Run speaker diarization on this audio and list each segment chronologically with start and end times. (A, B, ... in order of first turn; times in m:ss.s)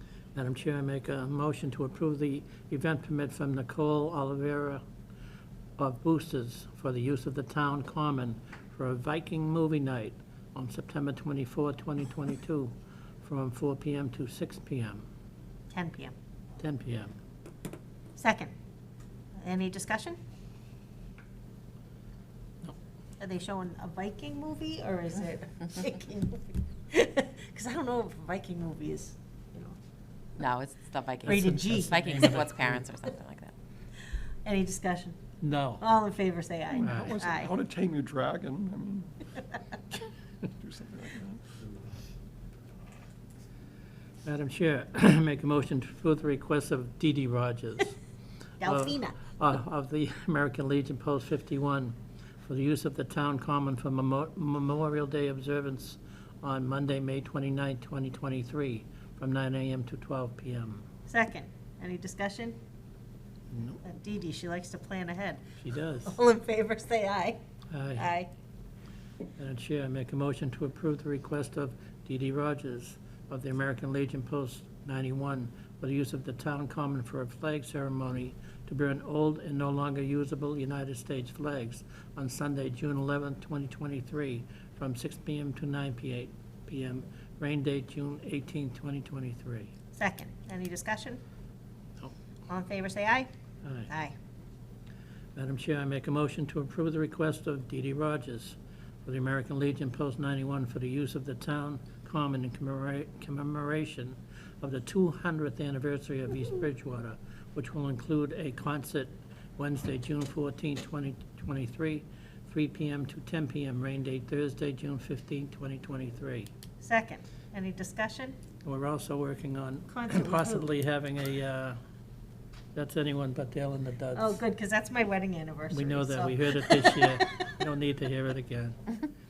0:00.3-0:04.8 A
0:05.8-0:15.0 A
0:15.7-0:16.1 B
0:16.6-0:17.2 A
0:18.2-0:18.5 B
0:19.4-0:20.2 B
0:23.2-0:29.8 B
0:30.4-0:33.5 C
0:31.2-0:32.4 B
0:31.2-0:32.9 A
0:34.4-0:35.2 B
0:35.4-0:35.8 A
0:35.8-0:37.5 B
0:36.7-0:39.4 D
0:36.8-0:37.2 A
0:39.9-0:41.5 D
0:44.2-0:48.0 A
0:48.6-0:49.2 B
0:48.6-1:00.8 A
1:01.1-1:02.6 B
1:03.5-1:03.8 A
1:03.8-1:05.4 B
1:05.6-1:06.2 A
1:06.0-1:07.4 B
1:07.7-1:08.1 A
1:08.0-1:08.3 B
1:09.4-1:29.7 A
1:29.9-1:31.2 B
1:32.5-1:33.3 B
1:33.6-1:33.9 A
1:33.9-1:34.2 B
1:35.3-1:56.5 A
1:56.8-1:58.4 B
1:58.6-2:01.8 A
1:59.9-2:00.7 B
2:02.7-2:04.4 A
2:04.1-2:07.2 B
2:05.7-2:09.0 A